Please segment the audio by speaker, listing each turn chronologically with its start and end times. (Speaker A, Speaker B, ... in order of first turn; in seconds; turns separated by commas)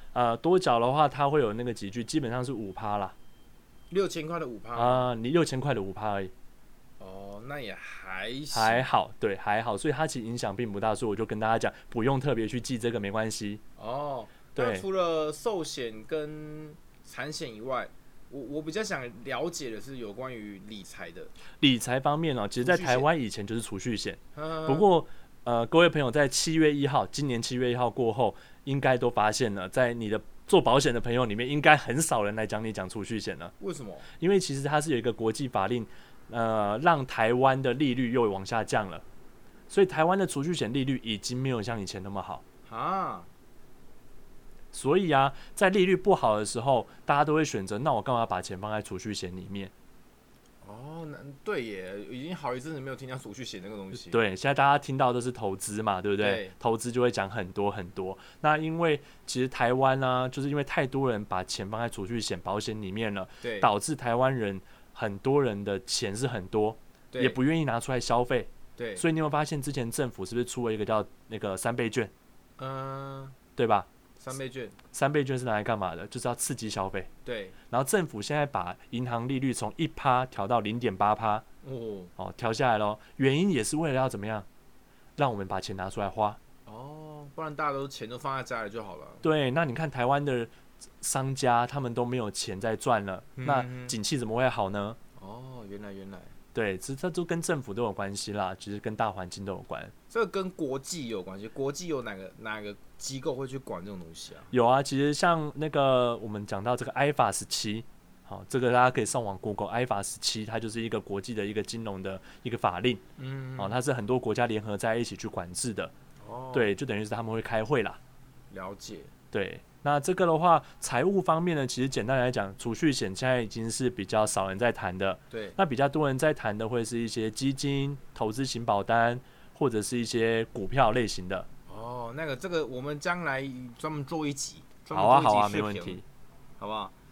Speaker A: 0.1-3.1, Speaker B: 3.9-5.1, Speaker A: 4.8-6.3, Speaker B: 7.0-8.8, Speaker A: 8.5-13.6, Speaker B: 13.8-21.3, Speaker A: 14.6-14.8, Speaker A: 21.6-33.5, Speaker B: 22.6-23.1, Speaker B: 24.4-24.9, Speaker B: 33.6-34.1, Speaker A: 34.2-39.0, Speaker A: 39.7-42.4, Speaker B: 42.7-43.3, Speaker A: 44.7-49.7, Speaker B: 50.6-54.2, Speaker A: 54.1-72.1, Speaker B: 56.2-56.5, Speaker B: 63.4-63.7, Speaker B: 67.1-67.4, Speaker B: 68.8-69.0, Speaker B: 72.6-73.4, Speaker A: 73.6-73.9, Speaker B: 74.2-74.8, Speaker A: 74.9-77.1, Speaker B: 77.2-77.5, Speaker A: 77.7-81.4, Speaker B: 81.6-82.1, Speaker A: 82.2-84.5, Speaker A: 85.2-86.4, Speaker B: 86.7-89.3, Speaker A: 89.2-95.0, Speaker B: 93.4-94.0, Speaker B: 95.2-96.3, Speaker A: 96.5-99.9, Speaker B: 100.1-104.5, Speaker A: 104.5-113.0, Speaker B: 113.2-113.8, Speaker A: 113.6-115.9, Speaker B: 116.2-116.8, Speaker A: 116.5-118.0, Speaker B: 118.5-119.1, Speaker A: 119.3-131.5, Speaker B: 125.3-125.6, Speaker B: 131.7-136.0, Speaker A: 134.9-136.0, Speaker B: 136.6-136.9